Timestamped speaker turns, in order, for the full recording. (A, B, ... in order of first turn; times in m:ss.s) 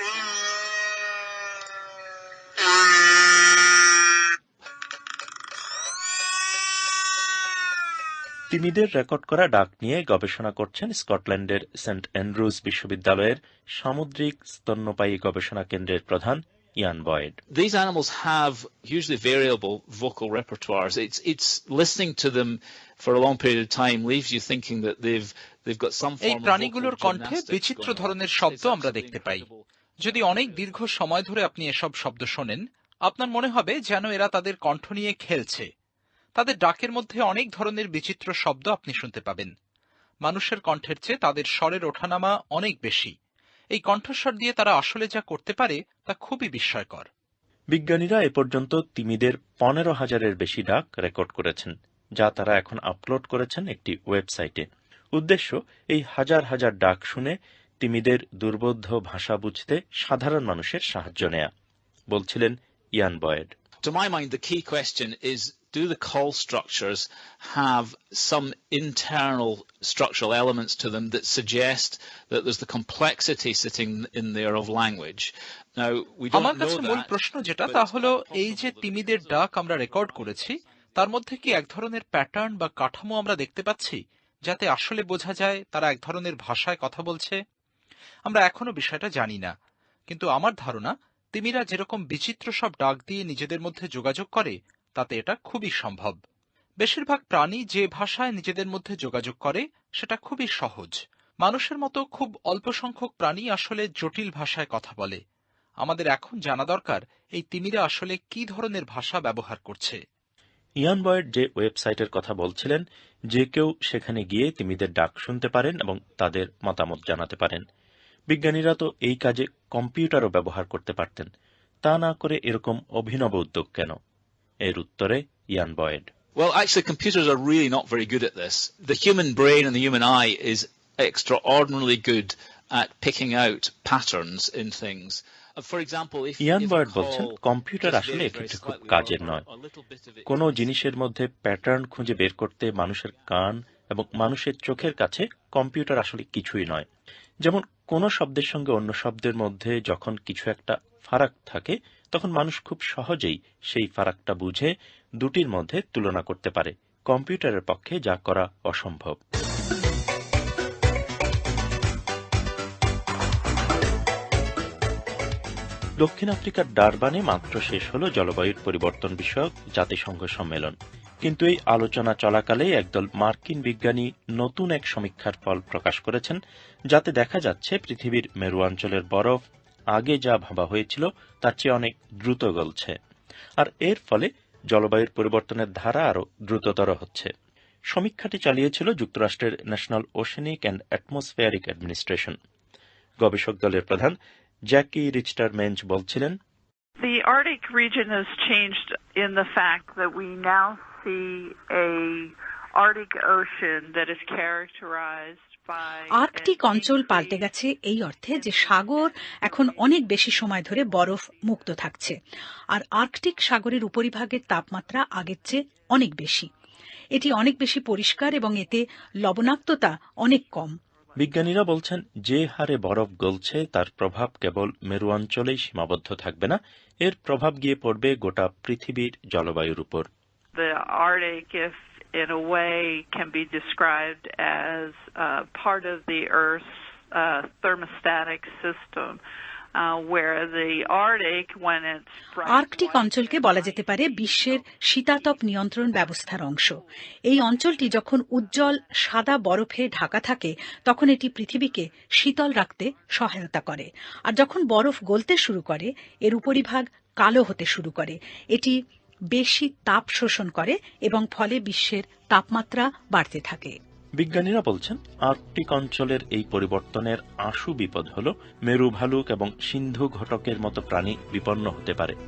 0:08.5-0:17.4 A
0:17.5-0:30.8 B
0:26.2-0:29.4 C
0:30.0-0:35.6 C
0:36.4-0:39.5 C
0:40.2-0:43.1 C
0:43.8-0:47.1 C
0:47.7-1:01.5 A
1:02.1-1:03.5 A
1:03.8-1:21.1 B
1:16.3-1:27.4 C
1:28.2-1:29.5 C
1:30.1-1:36.2 C
1:36.8-1:45.2 C
1:45.8-1:50.0 C
1:50.8-1:52.8 A
1:53.3-1:57.6 A
1:58.3-2:01.3 A
2:01.8-2:04.0 A
2:04.6-2:06.1 A
2:06.4-2:20.8 B
2:16.4-2:19.4 A
2:20.2-2:26.9 A
2:27.4-2:39.2 A
2:46.0-2:56.4 A
2:56.9-2:59.4 A
2:59.9-3:02.9 A
3:03.6-3:07.3 A
3:07.9-3:12.4 A
3:13.2-3:14.1 A
3:14.7-3:16.4 A
3:17.0-3:27.5 D
3:26.1-3:32.1 E
3:28.3-3:30.0 D
3:32.7-3:36.5 E
3:37.2-3:40.7 E
3:41.2-3:50.1 A
3:50.5-3:59.2 D
3:59.8-4:04.8 D
4:02.5-4:06.7 E
4:07.3-4:18.8 E
4:19.4-4:23.8 E
4:24.2-4:32.2 A